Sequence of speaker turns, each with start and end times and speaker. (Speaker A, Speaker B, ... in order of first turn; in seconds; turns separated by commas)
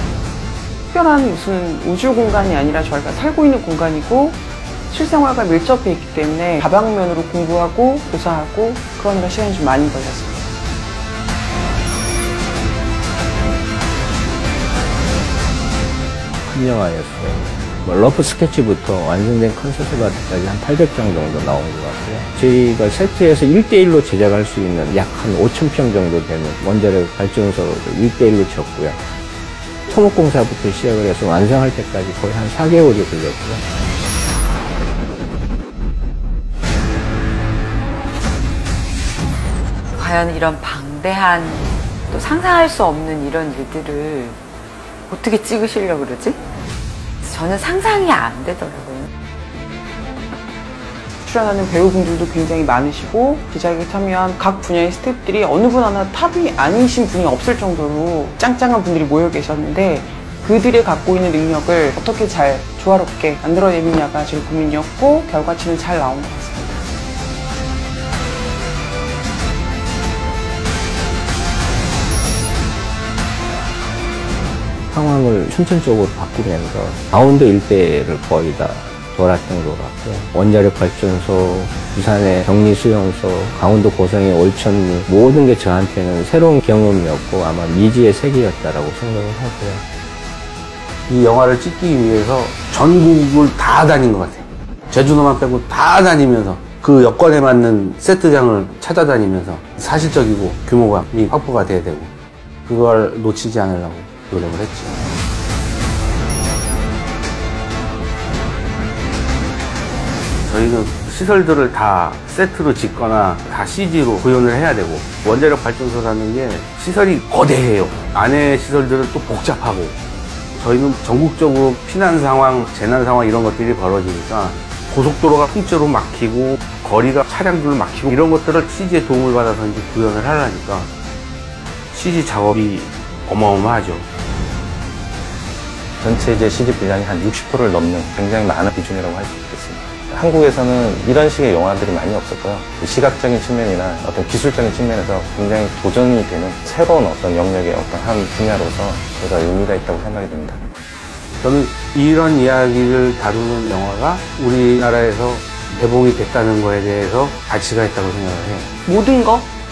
Speaker A: 0.9-10.5, Speaker B: 16.4-29.1, Speaker B: 29.9-33.6, Speaker C: 39.9-44.4, Speaker C: 45.1-46.4, Speaker C: 47.2-49.1, Speaker A: 51.2-66.8, Speaker B: 74.9-89.8, Speaker D: 91.1-102.1, Speaker D: 102.7-105.0, Speaker D: 110.5-120.0, Speaker D: 120.6-130.9, Speaker D: 131.9-134.1, Speaker E: 136.0-150.6, Speaker D: 151.4-158.7, Speaker A: 158.8-159.5